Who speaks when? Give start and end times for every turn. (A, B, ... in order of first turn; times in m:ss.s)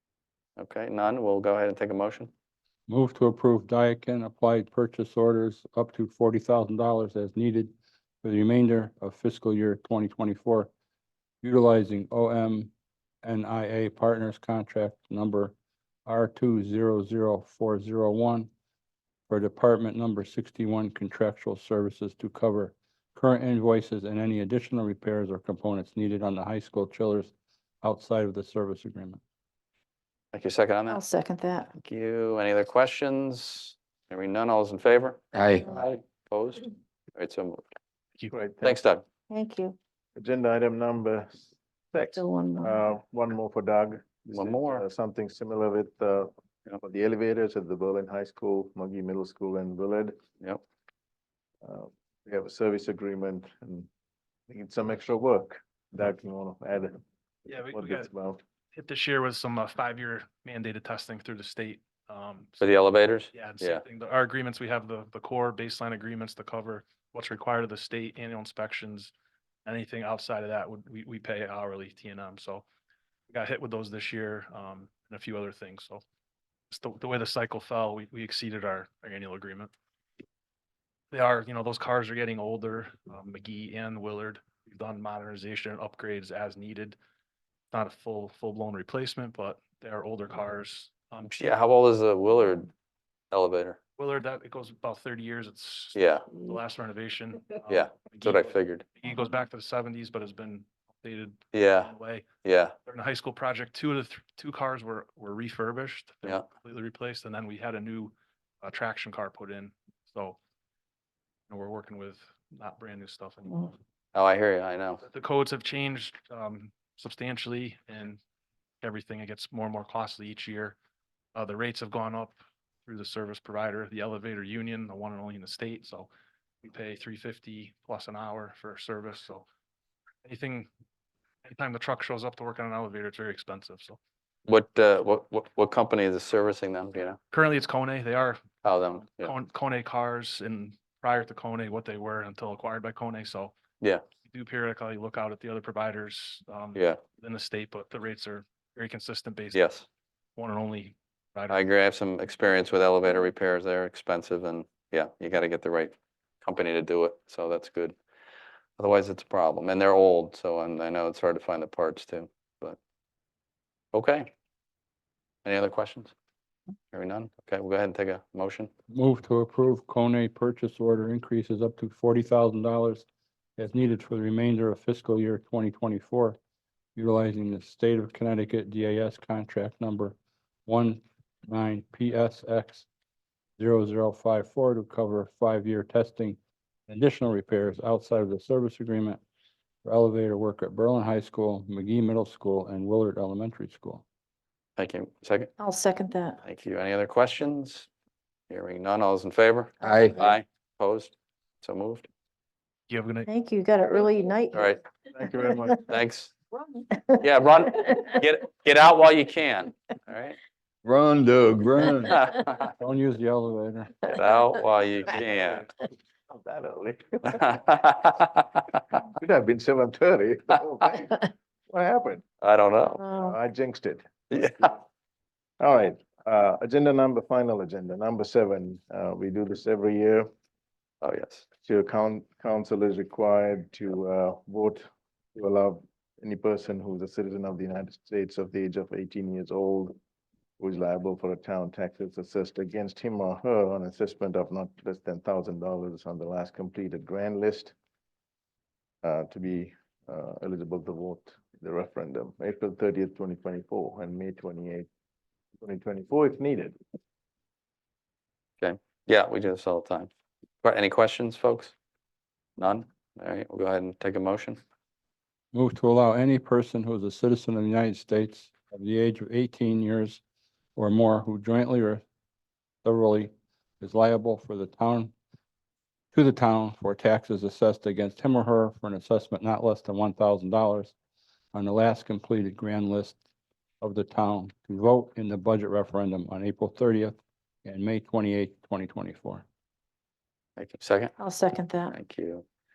0:00.6-0:02.3 A
0:02.9-0:10.7 B
0:11.4-0:12.7 B
0:13.2-0:15.6 B
0:16.1-0:18.5 B
0:19.3-0:29.2 B
0:30.3-0:31.0 A
0:30.9-0:31.7 C
0:31.8-0:37.6 A
0:35.3-0:35.7 D
0:38.3-0:38.8 E
0:38.6-0:39.0 A
0:39.3-0:39.8 C
0:40.2-0:50.2 E
0:42.2-0:42.8 C
0:44.3-0:44.8 A
0:51.6-0:53.9 E
0:54.5-0:57.0 E
0:57.5-0:58.1 F
0:57.7-0:58.4 E
0:58.8-1:02.6 F
1:02.6-1:03.8 A
1:03.3-1:09.1 F
1:09.6-1:12.6 F
1:13.3-1:16.0 F
1:16.7-1:19.7 F
1:21.1-1:27.0 F
1:27.7-1:31.3 F
1:31.3-1:32.7 A
1:33.3-1:33.8 A
1:34.0-1:42.3 F
1:36.0-1:36.3 A
1:37.7-1:38.8 A
1:41.5-1:41.9 A
1:42.4-1:42.8 A
1:42.9-1:50.4 F
1:51.5-1:53.8 F
1:54.2-1:55.0 A
1:55.0-1:58.2 F
1:58.8-2:00.8 F
2:01.4-2:06.1 F
2:06.6-2:09.4 F
2:10.2-2:10.7 F
2:11.4-2:14.0 F
2:14.5-2:17.2 A
2:17.3-2:18.4 F
2:18.6-2:19.3 A
2:19.1-2:23.6 F
2:24.2-2:29.7 F
2:29.5-2:29.8 A
2:30.4-2:31.6 F
2:31.5-2:38.0 A
2:38.8-2:42.8 A
2:43.9-2:44.3 A
2:45.4-2:46.1 A
2:46.9-2:48.7 A
2:48.9-2:53.0 B
2:53.6-2:56.4 B
2:57.0-3:00.2 B
3:00.7-3:02.9 B
3:03.6-3:09.2 B
3:09.8-3:14.0 B
3:14.8-3:15.5 A
3:15.6-3:16.4 C
3:16.4-3:17.9 A
3:18.5-3:22.1 A
3:19.8-3:20.2 D
3:22.9-3:23.3 F
3:23.3-3:24.7 C
3:24.5-3:24.8 A
3:25.1-3:25.8 E
3:25.9-3:26.3 A
3:27.2-3:30.4 A
3:30.8-3:32.2 D
3:32.0-3:32.7 A
3:32.7-3:34.0 B
3:34.1-3:35.7 A
3:35.2-3:35.6 E
3:36.3-3:37.6 E
3:37.3-3:38.5 A
3:39.1-3:42.2 E
3:42.4-3:43.0 A
3:43.0-3:43.3 C
3:43.0-3:44.7 E
3:44.3-3:44.7 A
3:45.6-3:50.3 E
3:51.0-3:51.4 A
3:51.6-3:54.8 E
3:55.4-4:00.0 E
4:00.6-4:07.7 E
4:09.0-4:14.9 E
4:15.6-4:16.8 E
4:18.6-4:20.1 A
4:20.6-4:21.8 A
4:22.6-4:24.6 A
4:25.5-4:30.2 B
4:30.8-4:32.0 B
4:32.8-4:35.1 B
4:36.1-4:40.9 B
4:41.5-4:43.2 B
4:43.8-4:49.4 B
4:50.6-4:51.2 A
4:51.2-4:51.9 C
4:51.9-4:52.4 A